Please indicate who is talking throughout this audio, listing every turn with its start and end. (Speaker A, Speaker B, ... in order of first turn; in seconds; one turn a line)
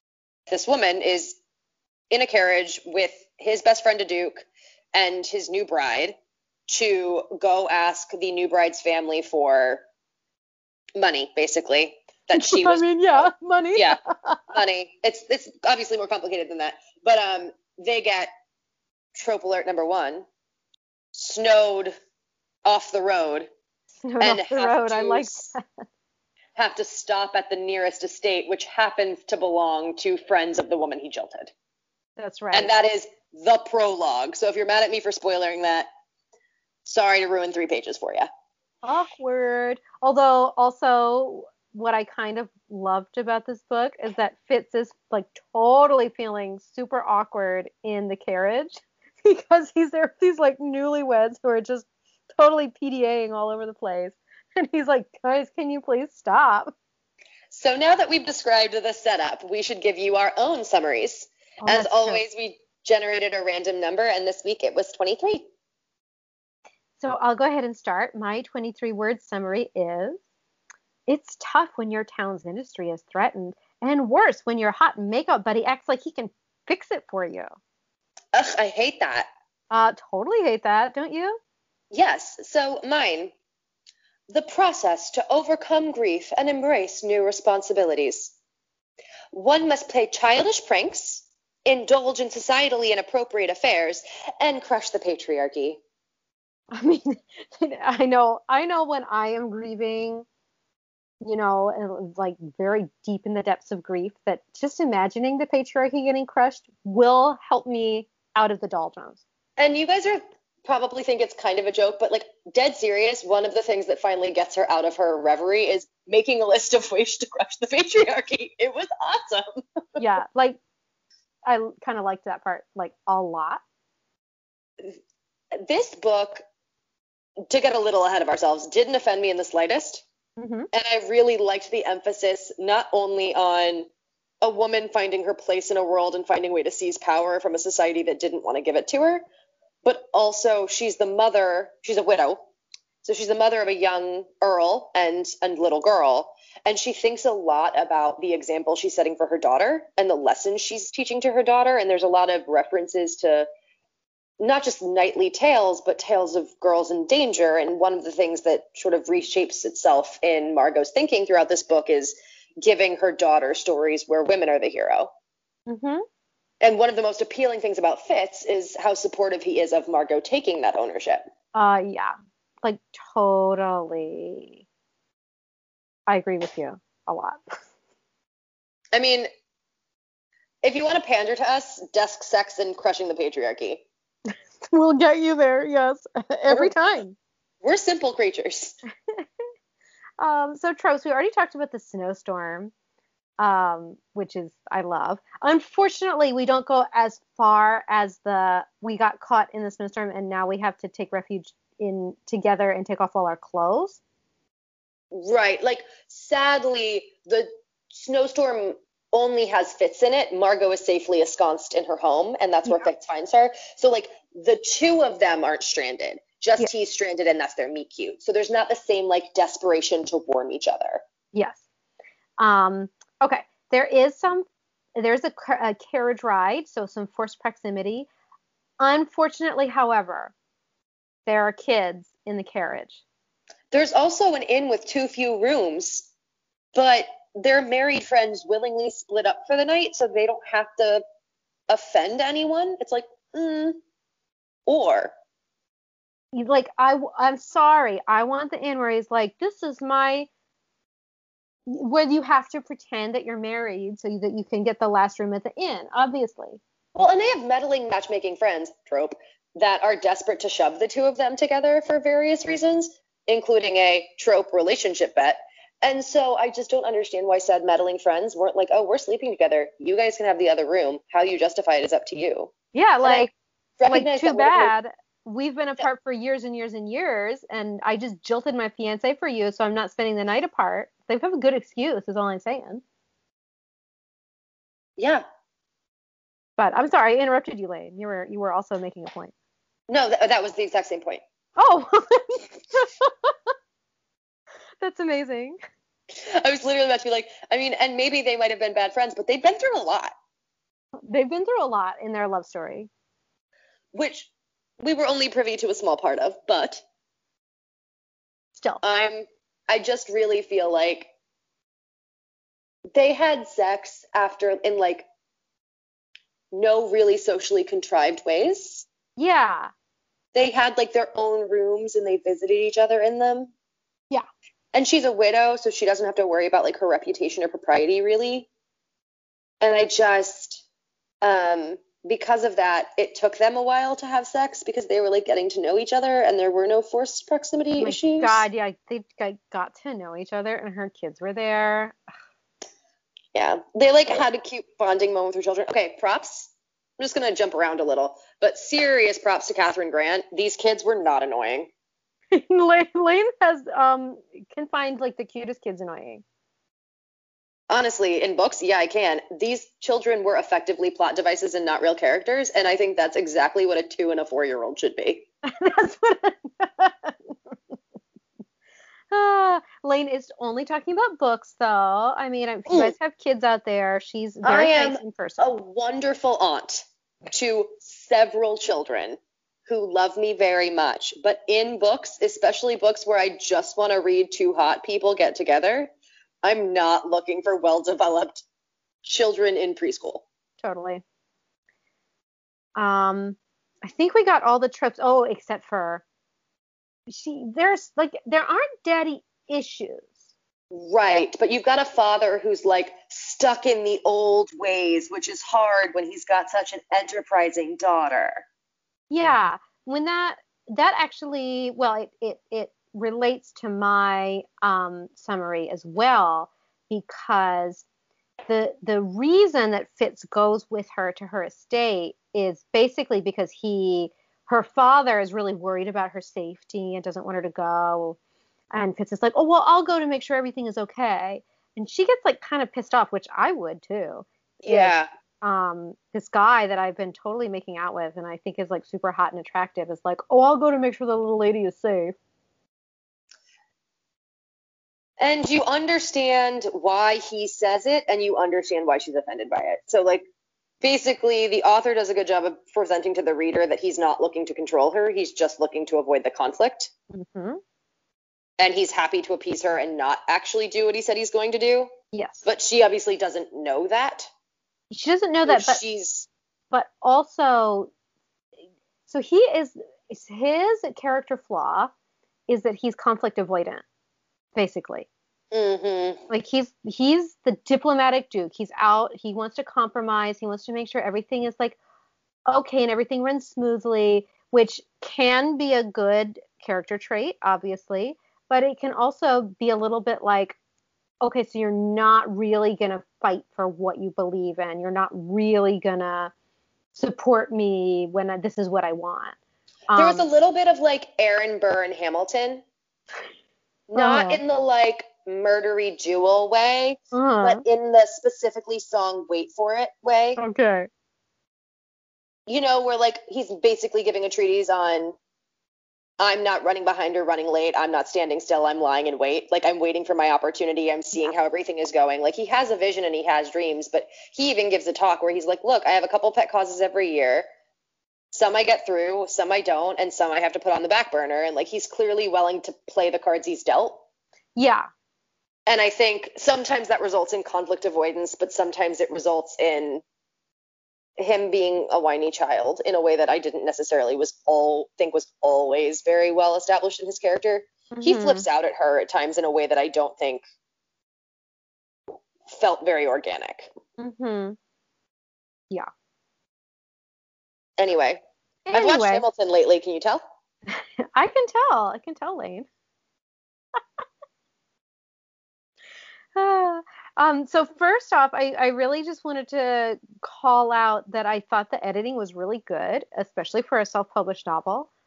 Speaker A: 0.5-1.4
Speaker A: 2.1-6.1
Speaker A: 6.7-9.8
Speaker A: 10.9-14.0
Speaker B: 12.3-14.5
Speaker A: 14.5-18.3
Speaker A: 19.1-20.2
Speaker A: 21.1-21.9
Speaker A: 22.6-23.5
Speaker B: 24.0-25.8
Speaker A: 24.2-25.5
Speaker A: 26.6-31.5
Speaker B: 32.2-32.7
Speaker A: 32.5-35.9
Speaker A: 36.8-38.3
Speaker B: 38.8-51.9
Speaker B: 52.4-56.7
Speaker A: 57.5-65.5
Speaker B: 61.6-62.2
Speaker B: 67.0-70.2
Speaker B: 71.1-77.5
Speaker A: 78.3-79.3
Speaker B: 79.7-81.4
Speaker A: 81.9-83.3
Speaker A: 84.3-88.3
Speaker A: 89.3-95.8
Speaker B: 96.7-100.2
Speaker B: 101.2-109.2
Speaker A: 109.6-120.0
Speaker B: 120.0-120.6
Speaker B: 121.4-123.6
Speaker A: 125.6-126.4
Speaker A: 127.5-130.0
Speaker B: 130.4-130.7
Speaker A: 130.7-133.9
Speaker A: 134.4-139.2
Speaker A: 139.8-142.4
Speaker A: 143.0-153.5
Speaker A: 154.4-165.1
Speaker B: 165.7-166.0
Speaker A: 166.6-171.2
Speaker B: 171.5-174.6
Speaker B: 176.1-177.6
Speaker A: 178.9-179.3
Speaker A: 180.6-183.8
Speaker B: 184.7-187.2
Speaker A: 187.6-188.8
Speaker B: 190.2-192.7
Speaker B: 193.4-204.0
Speaker A: 205.1-221.0
Speaker B: 221.3-221.6
Speaker B: 222.4-228.1
Speaker B: 228.8-230.3
Speaker B: 231.2-233.0
Speaker A: 233.7-236.1
Speaker A: 236.7-241.0
Speaker A: 241.7-243.8
Speaker A: 244.7-245.1
Speaker B: 246.3-250.3
Speaker B: 251.7-256.6
Speaker A: 256.9-272.5
Speaker B: 272.7-273.3
Speaker A: 273.0-274.7
Speaker B: 273.9-282.8
Speaker A: 285.0-285.2
Speaker B: 286.6-289.3
Speaker A: 289.9-291.2
Speaker B: 291.6-293.3
Speaker B: 294.8-295.6
Speaker A: 296.1-300.1
Speaker B: 301.0-302.9
Speaker A: 303.9-304.3
Speaker A: 304.8-306.8
Speaker B: 308.6-308.8
Speaker A: 308.8-311.1
Speaker A: 312.9-315.1
Speaker A: 316.5-318.9
Speaker B: 319.2-319.7
Speaker A: 320.3-323.5
Speaker A: 324.7-328.5
Speaker A: 329.6-330.6
Speaker A: 331.2-338.4
Speaker B: 337.8-342.0
Speaker A: 343.3-351.7
Speaker B: 352.3-356.2
Speaker A: 357.7-365.3
Speaker B: 365.4-367.5
Speaker B: 369.1-375.5
Speaker A: 372.7-372.9
Speaker A: 374.4-385.9
Speaker A: 386.4-388.4
Speaker A: 389.0-390.2
Speaker B: 390.6-391.0
Speaker B: 392.8-396.0
Speaker B: 397.1-400.1
Speaker A: 400.7-408.4
Speaker B: 409.1-417.8
Speaker B: 418.5-428.2
Speaker B: 428.7-442.1
Speaker A: 434.6-435.1
Speaker A: 445.2-450.2
Speaker A: 450.8-456.9
Speaker B: 457.1-457.6
Speaker A: 458.6-461.9
Speaker B: 462.1-462.4
Speaker A: 462.4-464.3
Speaker B: 464.9-465.8
Speaker A: 465.5-466.3
Speaker B: 466.7-467.9
Speaker B: 469.1-471.9
Speaker B: 472.5-473.8
Speaker B: 474.5-475.1
Speaker A: 475.5-476.2
Speaker B: 476.3-481.8
Speaker B: 482.5-490.6
Speaker B: 491.2-496.3
Speaker B: 496.9-499.4
Speaker B: 499.9-500.2
Speaker A: 499.9-502.6
Speaker A: 503.9-510.4
Speaker B: 503.9-504.4
Speaker B: 507.1-507.6
Speaker B: 510.4-510.9
Speaker A: 512.5-515.1
Speaker A: 516.2-527.4
Speaker A: 528.3-534.0
Speaker B: 534.5-534.9
Speaker A: 535.7-540.0
Speaker A: 541.2-550.4
Speaker B: 547.9-548.4
Speaker A: 552.5-553.7
Speaker B: 554.0-554.6
Speaker A: 557.8-558.2
Speaker B: 558.6-559.2
Speaker A: 558.7-560.2
Speaker B: 560.7-562.7
Speaker B: 566.3-574.9